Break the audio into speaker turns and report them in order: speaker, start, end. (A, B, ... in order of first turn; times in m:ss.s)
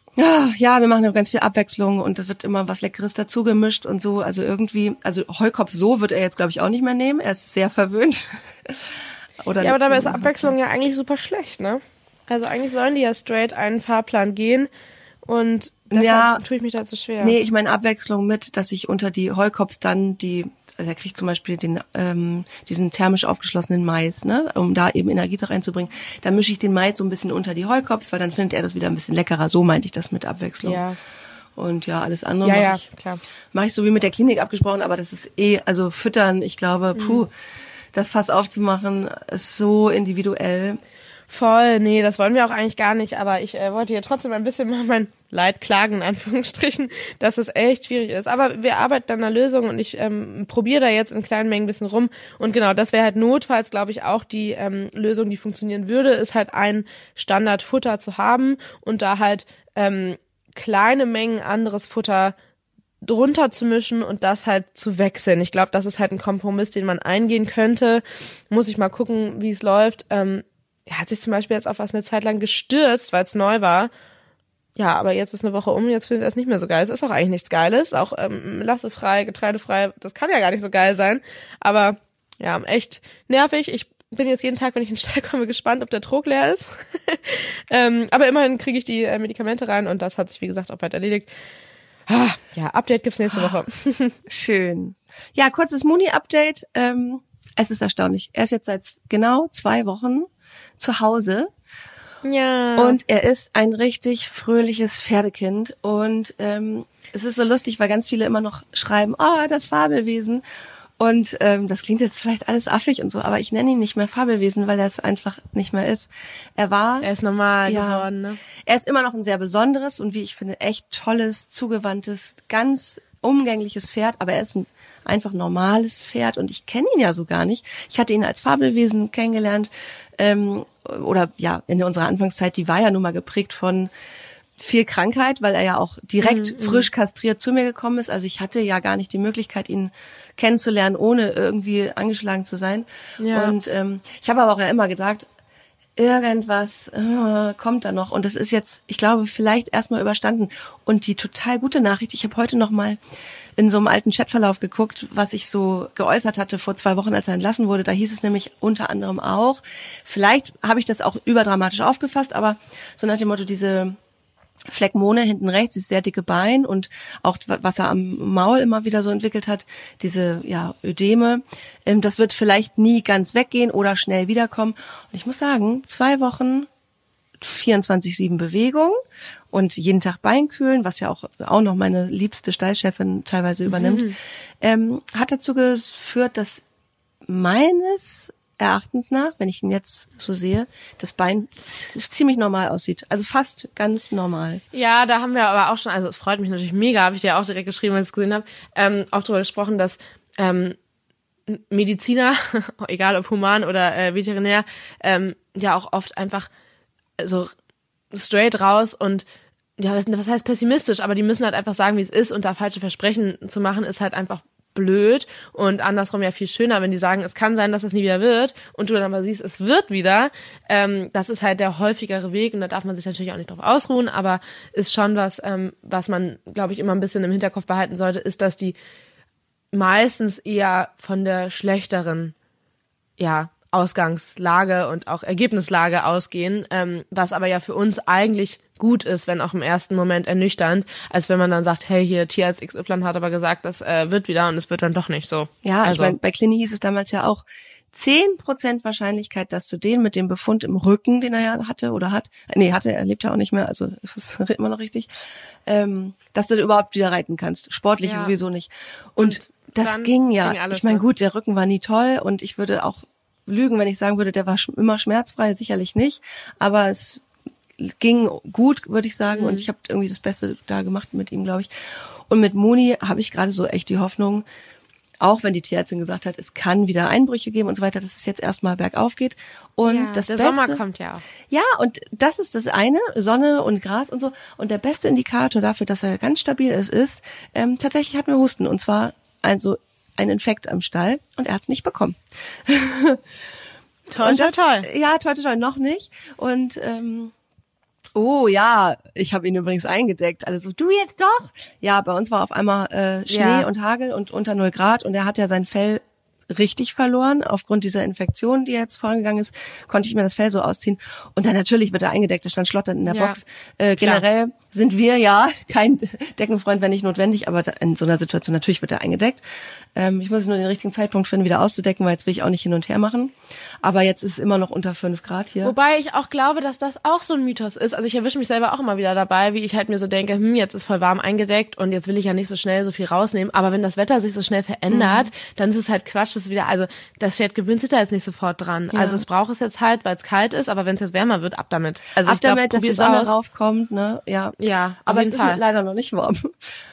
0:00.2-0:08.8 A
0:09.4-0:10.5 A
0:09.6-0:14.7 B
0:15.3-0:17.4 B
0:15.9-0:16.4 A
0:17.2-0:30.8 A
0:30.6-0:31.0 B
0:31.6-0:32.8 A
0:32.4-0:33.2 B
0:33.5-0:37.3 A
0:37.0-0:37.2 B
0:37.9-0:40.8 A
0:41.3-1:02.3 B
1:03.0-1:13.9 B
1:14.8-1:31.3 B
1:32.1-1:34.2 B
1:34.3-1:41.5 A
1:42.2-1:43.0 B
1:42.8-1:50.4 A
1:51.0-1:57.1 A
1:57.0-1:58.4 B
1:57.7-1:58.0 A
1:58.6-2:13.9 A
2:14.6-2:25.3 A
2:16.2-2:16.9 B
2:23.2-2:23.5 B
2:26.0-2:33.0 A
2:33.6-2:44.0 A
2:44.7-2:56.7 A
2:57.4-2:59.0 A
2:59.5-3:06.6 A
3:03.7-3:04.1 B
3:07.3-3:14.6 A
3:14.7-3:20.8 B
3:21.5-3:26.5 B
3:27.2-3:27.5 B
3:28.1-3:29.2 B
3:29.8-3:48.7 B
3:49.7-3:52.3 B
3:53.2-4:06.1 B
4:05.6-4:15.1 A
4:15.6-4:27.2 A
4:18.0-4:18.3 B
4:19.2-4:21.0 B
4:27.8-4:31.7 A
4:29.3-4:29.6 B
4:32.3-4:34.4 A
4:35.2-4:40.8 A
4:39.9-4:41.2 B
4:41.5-4:53.2 A
4:54.1-4:54.9 B
4:54.1-4:57.3 A
4:58.1-5:19.4 A
5:03.3-5:03.7 B
5:13.1-5:13.4 B
5:19.9-5:25.7 A
5:25.6-5:43.3 B
5:34.9-5:35.3 A
5:38.9-5:39.2 A
5:42.2-5:46.7 A
5:44.6-5:45.6 B